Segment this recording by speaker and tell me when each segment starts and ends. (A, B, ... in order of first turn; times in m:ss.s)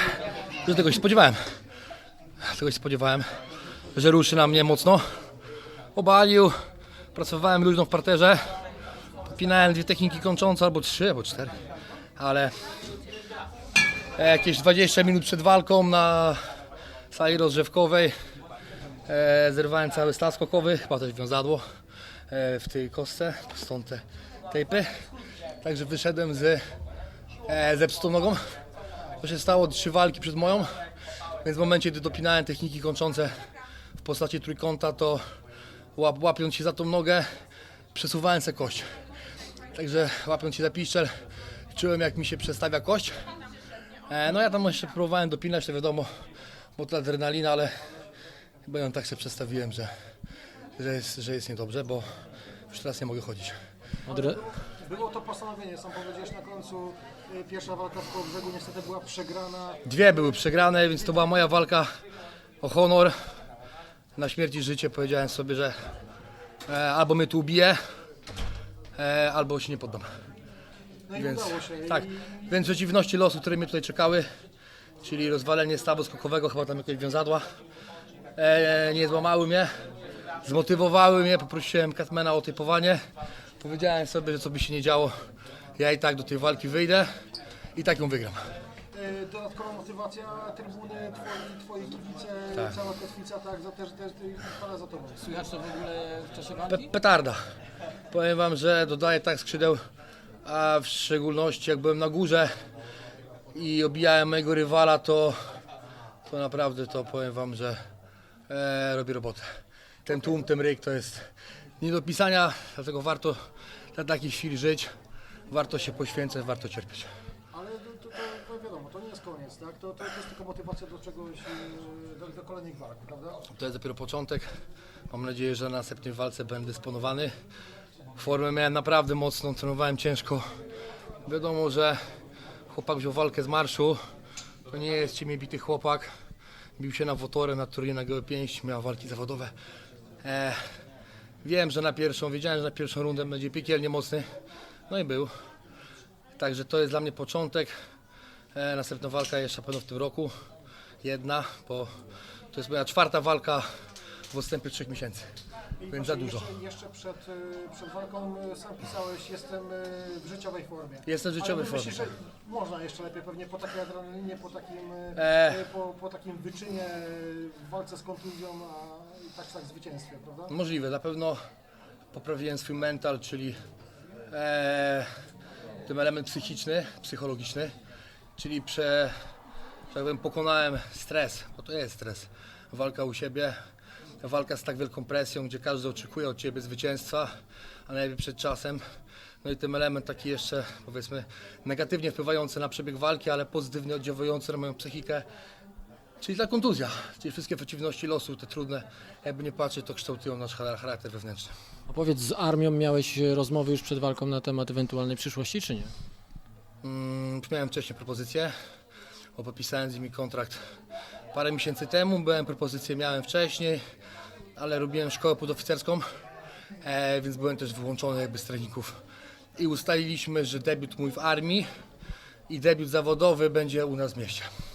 0:00.6-0:01.4 A
0:02.4-0:03.3 A
0:03.9-0:05.0 A
0:05.9-0:06.5 A
0:07.1-0:08.6 A
0:09.3-0:11.5 A
0:12.2-0:12.5 A
0:14.1-0:16.4 A
0:17.1-0:18.1 A
0:19.1-0:21.6 A
0:22.3-0:24.9 A
0:25.6-0:26.6 A
0:27.4-0:28.4 A
0:29.2-0:30.7 A
0:31.4-0:33.3 A
0:34.0-0:35.2 A
0:36.0-0:37.2 A
0:37.9-0:38.8 A
0:39.7-0:41.1 A
0:41.7-0:43.2 A
0:44.1-0:46.1 A
0:46.8-0:47.7 A
0:48.6-0:49.9 A
0:50.8-0:52.1 A
0:52.7-0:53.6 A
0:54.1-0:59.8 B
0:54.1-0:54.4 C
0:59.8-1:01.9 A
1:02.6-1:03.1 A
1:04.2-1:05.8 A
1:06.7-1:07.8 A
1:09.0-1:10.1 A
1:11.1-1:12.5 B
1:11.1-1:14.3 A
1:15.0-1:17.4 A
1:18.4-1:19.7 A
1:20.4-1:23.0 A
1:23.6-1:25.1 A
1:25.8-1:27.1 A
1:27.7-1:28.4 A
1:28.9-1:35.2 B
1:35.2-1:36.9 C
1:36.7-1:37.4 A
1:38.1-1:39.8 A
1:40.4-1:42.5 A
1:43.5-1:45.4 A
1:46.2-1:47.8 A
1:48.5-1:49.4 A
1:50.0-1:51.3 A
1:51.8-1:53.4 A
1:53.9-1:54.9 A
1:55.5-1:57.1 A
1:57.5-2:03.4 B
2:03.5-2:04.5 A
2:05.1-2:07.3 A
2:08.2-2:10.4 A
2:11.2-2:12.0 A
2:12.7-2:14.0 A
2:14.7-2:16.1 A
2:16.8-2:19.5 A
2:20.2-2:20.6 A
2:21.4-2:24.3 A
2:24.9-2:25.3 A
2:26.4-2:27.7 A
2:28.5-2:30.3 A
2:31.0-2:31.9 A
2:32.5-2:33.6 A
2:34.3-2:35.3 A
2:35.8-2:50.5 B
2:35.9-2:36.5 A
2:41.0-2:42.1 A
2:45.1-2:45.6 A
2:50.5-2:51.4 A
2:52.1-2:53.6 A
2:54.3-2:55.1 A
2:55.8-2:57.7 A
2:58.4-2:59.1 A
2:59.9-3:03.6 A
3:04.2-3:07.3 A
3:07.9-3:08.8 A
3:09.4-3:15.2 A
3:16.2-3:21.5 A
3:21.9-3:25.9 C
3:26.8-3:28.5 A
3:29.4-3:30.6 A
3:31.3-3:33.8 A
3:34.5-3:36.0 A
3:36.8-3:39.0 A
3:39.6-3:41.6 A
3:42.5-3:44.5 A